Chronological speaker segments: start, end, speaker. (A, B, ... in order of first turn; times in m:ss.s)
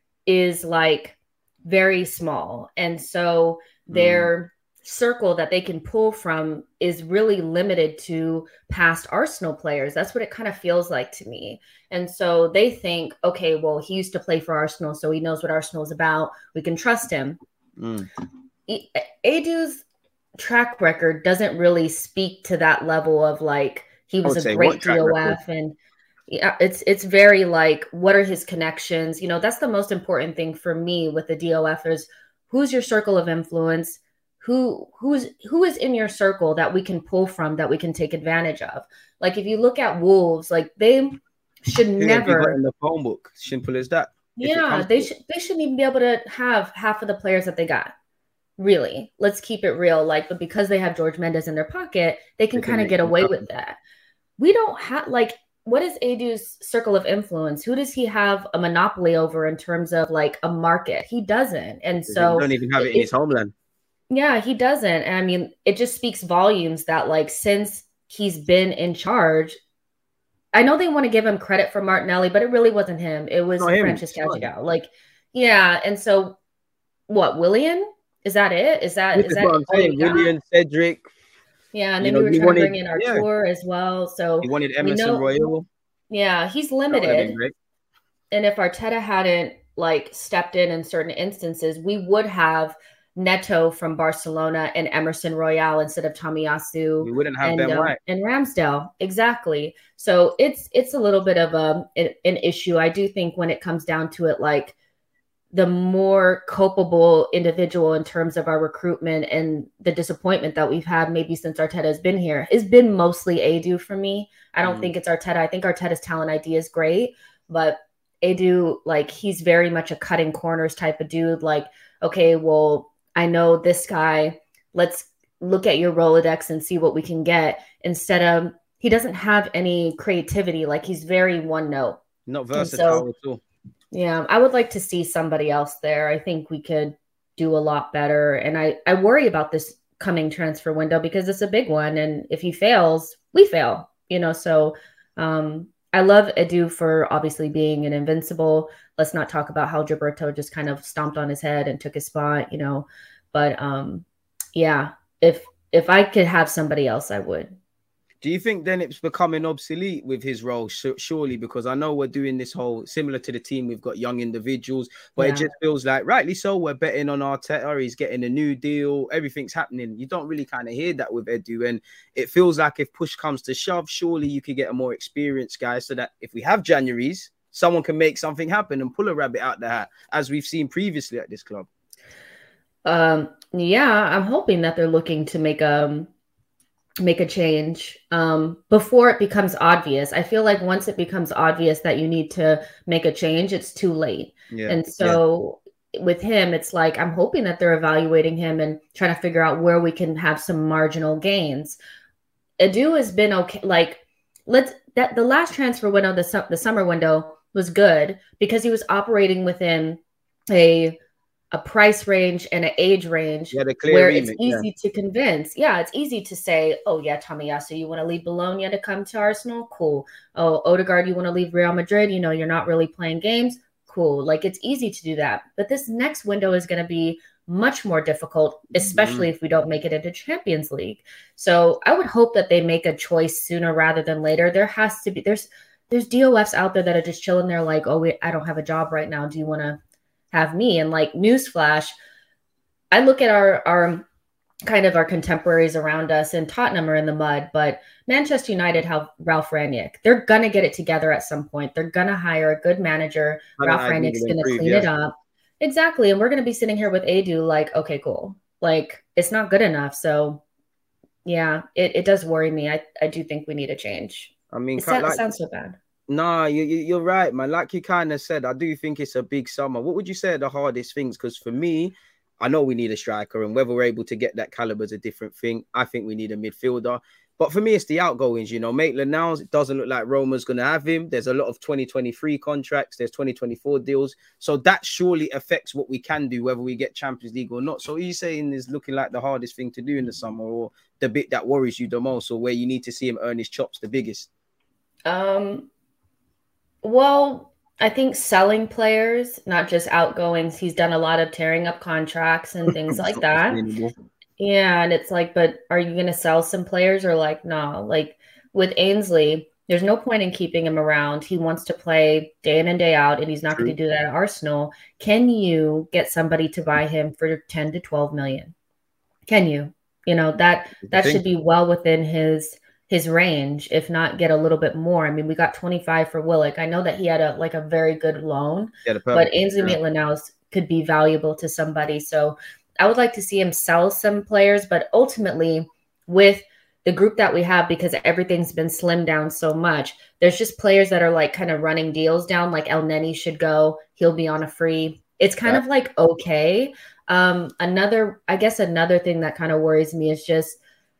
0:00.2-0:17.4 A
0:03.9-0:04.3 B
0:17.8-0:18.1 B
0:18.7-0:19.8 A
0:20.4-0:25.8 A
0:24.2-0:25.4 B
0:26.3-0:42.6 A
0:42.0-0:45.1 B
0:44.4-0:47.9 A
0:48.6-0:53.8 A
0:52.6-0:53.4 B
0:54.4-1:03.1 A
1:02.1-1:03.5 B
1:04.1-1:09.6 A
1:10.5-1:16.4 A
1:13.6-1:14.5 B
1:17.1-1:20.3 A
1:19.1-1:21.1 B
1:21.7-1:25.4 A
1:22.0-1:23.2 B
1:24.4-1:25.6 B
1:26.1-1:27.4 A
1:26.9-1:27.5 B
1:28.3-1:44.8 A
1:37.0-1:38.0 B
1:45.5-2:12.0 A
1:54.6-1:54.9 B
2:12.2-2:13.4 B
2:12.5-2:13.1 A
2:13.9-2:37.6 A
2:38.2-3:01.7 B
2:45.2-2:45.5 A
3:02.8-3:06.1 A
3:07.0-3:21.8 A
3:14.5-3:15.2 B
3:22.6-3:31.0 A
3:31.5-3:59.8 A
3:33.5-3:34.7 B
3:48.7-3:49.3 B
4:00.3-4:01.9 A
4:02.9-4:04.1 A
4:04.6-4:20.4 A
4:13.6-4:14.9 B
4:21.2-4:25.8 A
4:24.5-4:25.3 B
4:26.1-4:54.3 B
4:55.1-4:55.7 A
4:56.8-5:03.6 A
5:02.9-5:03.9 B
5:04.4-5:18.5 A
5:19.3-5:50.6 A
5:20.8-5:21.2 B
5:28.9-5:29.8 B